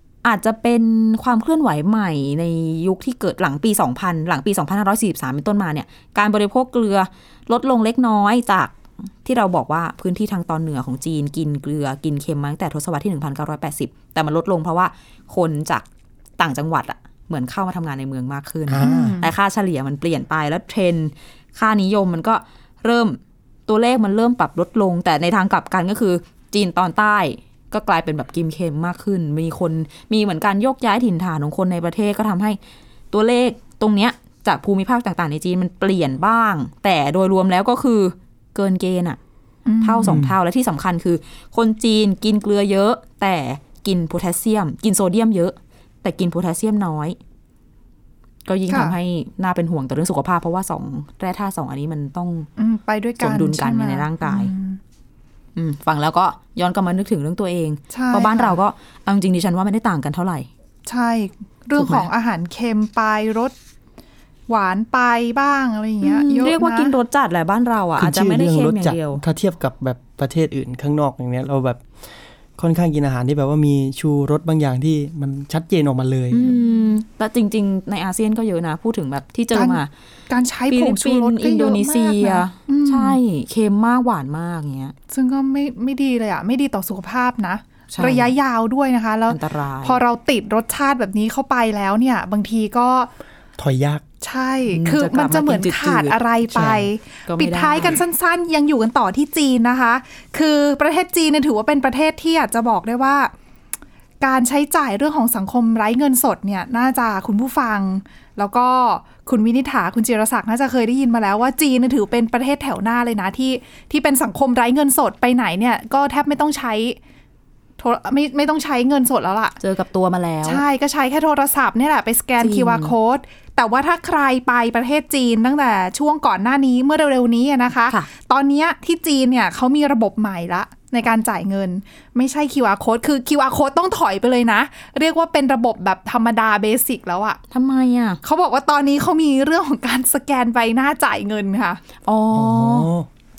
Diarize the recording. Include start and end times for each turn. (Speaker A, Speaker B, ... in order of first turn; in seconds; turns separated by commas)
Speaker A: 0.2-15.9, Speaker A: 16.4-32.6, Speaker B: 18.8-19.1, Speaker C: 18.8-19.3, Speaker A: 33.1-39.2, Speaker C: 39.7-40.2, Speaker A: 39.8-47.2, Speaker B: 40.0-40.4, Speaker A: 48.5-52.5, Speaker C: 48.7-49.0, Speaker C: 52.6-54.8, Speaker A: 53.2-54.5, Speaker A: 55.6-60.5, Speaker C: 57.9-58.6, Speaker C: 60.9-63.5, Speaker A: 61.8-62.1, Speaker C: 64.5-66.9, Speaker A: 66.0-69.2, Speaker B: 68.0-71.8, Speaker B: 72.6-76.6, Speaker A: 76.3-79.9, Speaker C: 79.5-83.2, Speaker A: 80.7-85.0, Speaker C: 85.1-93.1, Speaker A: 87.9-88.3, Speaker A: 89.3-90.0, Speaker B: 93.6-94.0, Speaker C: 94.2-103.3, Speaker A: 94.7-96.2, Speaker B: 96.5-96.9, Speaker A: 97.3-98.0, Speaker C: 104.2-117.0, Speaker C: 117.8-119.6, Speaker A: 119.6-120.6, Speaker C: 120.4-137.4, Speaker A: 122.4-122.9, Speaker A: 137.5-138.2, Speaker C: 138.2-141.8, Speaker A: 142.0-142.9, Speaker B: 142.3-143.1